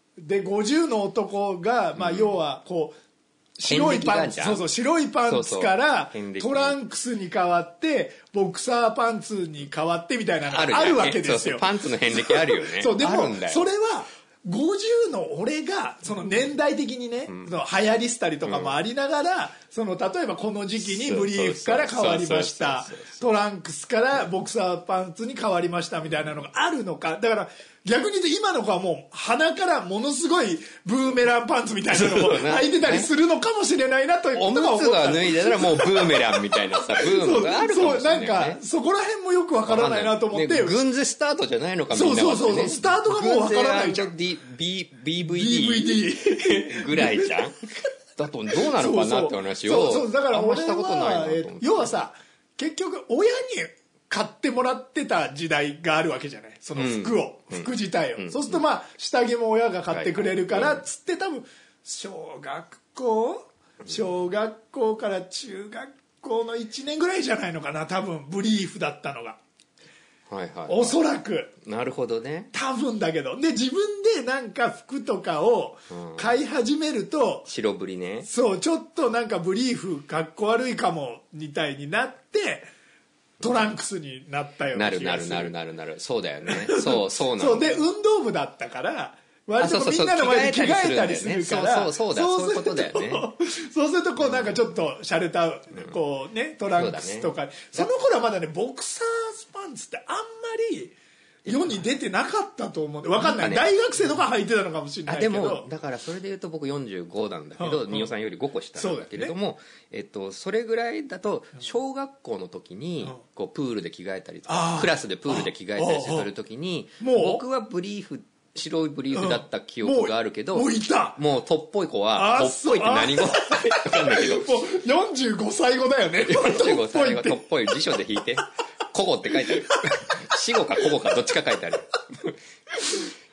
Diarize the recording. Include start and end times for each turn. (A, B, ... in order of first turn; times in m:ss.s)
0:00.2-0:03.0 A
0:02.0-0:02.4 B
0:03.6-0:40.8 A
0:03.6-0:04.7 B
0:05.3-0:06.8 B
0:10.5-0:13.7 B
0:17.3-0:17.6 B
0:18.4-0:18.8 B
0:20.8-0:23.2 B
0:31.9-0:33.1 B
0:34.3-0:38.6 B
0:39.7-0:47.6 B
0:41.9-0:44.1 A
0:45.2-0:47.5 A
0:48.2-0:52.0 B
0:48.5-1:09.4 A
0:56.8-0:58.6 B
0:59.9-1:00.8 B
1:10.3-1:11.0 B
1:10.7-1:11.5 A
1:11.6-1:12.5 B
1:12.5-1:17.5 A
1:15.9-1:16.4 B
1:17.5-1:18.3 B
1:18.3-1:22.7 A
1:23.4-1:25.5 A
1:23.4-1:23.7 B
1:24.7-1:27.8 B
1:26.5-1:45.7 A
1:29.6-1:33.3 B
1:34.2-1:34.6 B
1:36.8-1:37.9 B
1:41.4-1:41.9 B
1:43.2-1:44.1 B
1:45.1-2:04.6 B
1:47.6-1:48.1 A
1:48.8-1:49.3 A
1:54.5-1:56.3 A
1:57.0-1:57.4 A
1:59.1-2:01.2 A
2:02.2-2:07.8 A
2:06.2-2:12.4 B
2:09.3-2:11.1 A
2:12.7-2:13.1 A